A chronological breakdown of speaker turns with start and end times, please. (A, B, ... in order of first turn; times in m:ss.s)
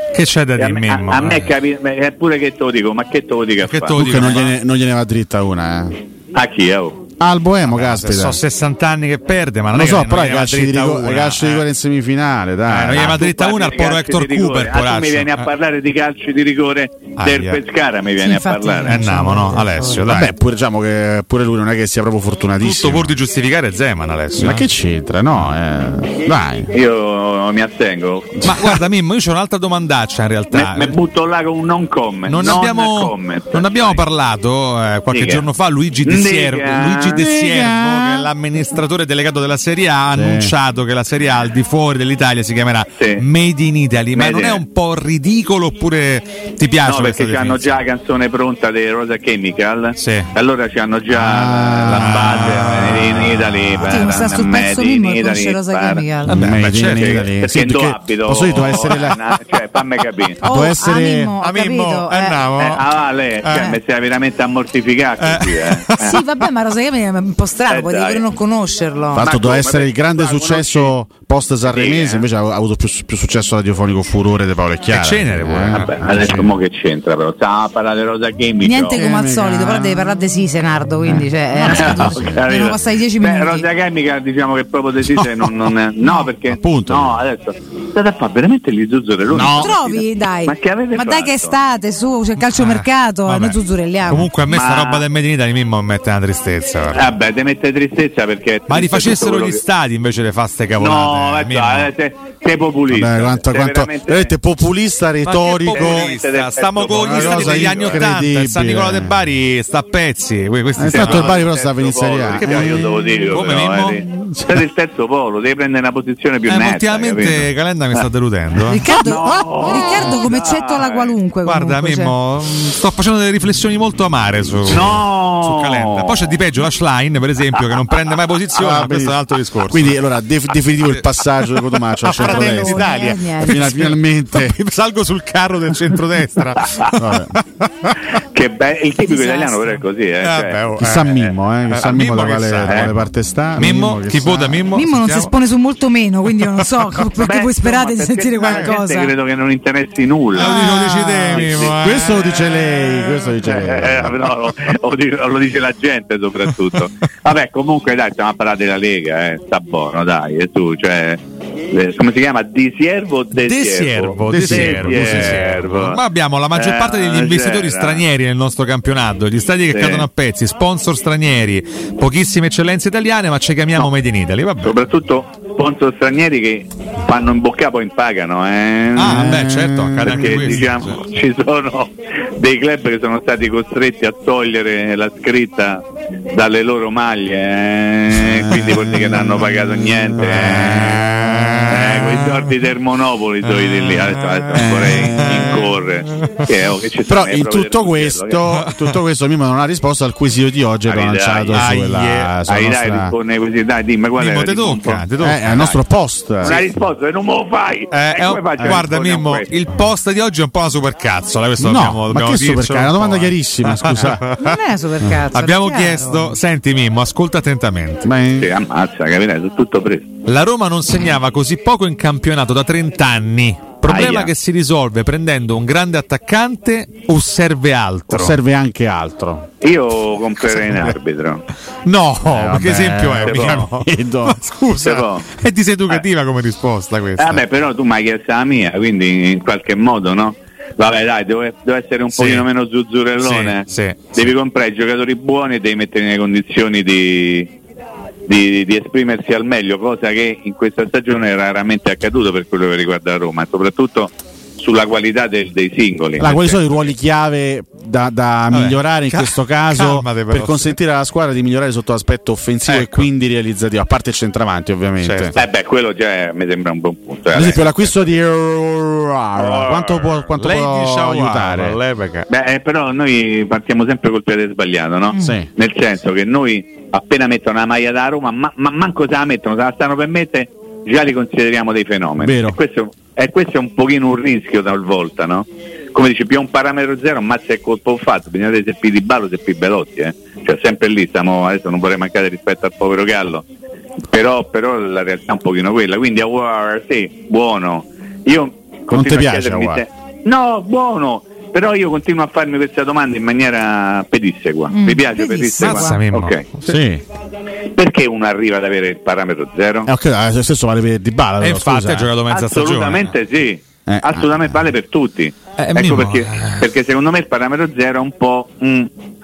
0:00.1-0:01.5 A
0:00.6-0:04.3 B
0:03.6-0:04.5 A
0:04.0-0:06.0 C
0:06.3-0:07.0 B
0:07.2-0:08.4 C
0:07.7-0:11.6 A
0:09.7-0:13.2 C
0:12.7-0:15.4 A
0:12.9-0:19.1 B
0:17.2-0:17.6 A
0:18.2-0:20.1 D
0:18.8-0:20.3 A
0:20.0-0:23.1 C
0:22.6-0:24.6 A
0:24.4-0:26.7 C
0:26.7-0:28.4 B
0:28.4-0:30.9 A
0:28.4-0:28.8 C
0:30.5-0:34.0 B
0:32.3-0:47.7 A
0:35.1-0:35.4 B
0:36.0-0:37.2 B
0:37.2-0:38.3 C
0:40.1-0:40.5 C
0:43.0-0:43.2 B
0:44.1-0:44.6 B
0:46.8-0:56.1 B
0:50.0-0:50.3 A
0:51.1-0:52.9 C
0:51.9-0:53.5 A
0:53.8-0:56.4 D
0:56.3-0:57.2 A
0:56.3-0:59.2 C
0:56.9-1:00.4 B
1:00.4-1:01.3 C
1:00.4-1:02.5 D
1:01.4-1:02.8 A
1:02.6-1:06.2 B
1:05.2-1:06.2 A
1:06.0-1:09.3 D
1:07.7-1:08.2 B
1:09.1-1:10.9 B
1:09.1-1:16.5 C
1:11.6-1:12.2 B
1:14.9-1:15.9 A
1:15.7-1:19.0 B
1:18.6-1:23.7 D
1:19.0-1:20.1 C
1:21.0-1:22.4 C
1:21.6-1:31.6 B
1:25.2-1:25.5 C
1:26.4-1:27.2 C
1:29.3-1:29.8 C
1:29.6-1:34.3 D
1:32.5-1:37.1 A
1:34.4-1:35.0 B
1:36.9-1:39.6 B
1:38.7-1:41.9 A
1:40.8-1:44.3 B
1:42.9-1:46.1 C
1:45.2-1:51.4 A
1:45.7-1:48.0 B
1:46.8-1:49.2 C
1:50.8-1:52.8 C
1:50.9-1:57.5 B
1:52.4-1:54.0 A
1:54.3-1:54.6 C
1:56.5-1:58.9 A
1:58.6-2:02.2 D
1:59.0-2:01.2 B
2:01.4-2:09.9 A
2:04.7-2:06.4 B
2:04.7-2:04.9 C
2:08.5-2:14.6 C
2:10.8-2:18.0 A
2:12.1-2:13.6 D
2:17.0-2:17.3 C
2:18.1-2:20.6 B
2:19.0-2:19.8 D
2:20.2-2:22.9 A
2:20.8-2:24.7 C
2:23.6-2:25.3 A
2:24.7-2:29.1 D
2:27.2-2:30.6 B
2:28.4-2:28.7 A
2:30.4-2:32.8 A
2:30.4-2:34.3 C
2:31.3-2:31.9 B
2:33.4-2:41.2 B
2:41.7-2:46.0 B
2:43.4-2:54.7 A
2:44.3-2:45.6 C
2:46.5-2:48.0 B
2:49.7-2:50.1 B
2:54.6-2:59.4 B
2:59.0-3:01.0 A
2:59.1-3:00.6 C
3:00.0-3:11.0 B
3:10.1-3:11.9 C
3:11.2-3:11.6 A
3:11.7-3:18.4 B
3:13.6-3:15.6 A
3:14.5-3:15.5 C
3:17.1-3:23.1 C
3:20.9-3:21.6 B
3:21.5-3:22.3 A
3:22.4-3:25.0 B
3:24.2-3:25.8 A
3:25.2-3:26.6 C
3:26.4-3:29.5 B
3:27.9-3:34.6 A
3:31.6-3:34.3 C
3:34.3-3:36.3 D
3:35.3-3:38.1 A
3:38.0-3:38.5 C
3:38.4-3:40.1 B
3:40.3-3:48.4 A
3:43.8-3:44.3 B
3:48.1-3:49.5 C
3:49.6-3:51.5 B
3:51.8-3:57.4 A
3:52.2-3:54.4 C
3:53.2-3:53.7 B
3:54.8-3:55.3 B
3:57.2-4:07.5 B
4:02.1-4:02.5 A
4:03.2-4:04.1 A
4:08.3-4:16.6 B
4:16.2-4:25.3 C
4:18.5-4:20.7 A
4:22.7-4:23.0 A
4:25.0-4:25.3 A
4:25.3-4:28.0 B
4:27.3-4:31.8 C
4:29.4-4:30.2 B
4:30.4-4:32.3 A
4:32.3-4:53.4 B
4:35.1-4:35.4 D
4:35.2-4:35.5 C
4:42.2-4:42.6 C
4:54.1-5:06.4 B
4:58.9-4:59.8 C
5:04.7-5:06.1 D
5:05.6-5:06.7 A
5:06.6-5:07.0 C
5:07.8-5:09.9 B
5:09.8-5:12.1 C
5:11.4-5:13.1 A
5:12.3-5:18.9 B
5:13.9-5:14.4 C
5:15.6-5:16.7 A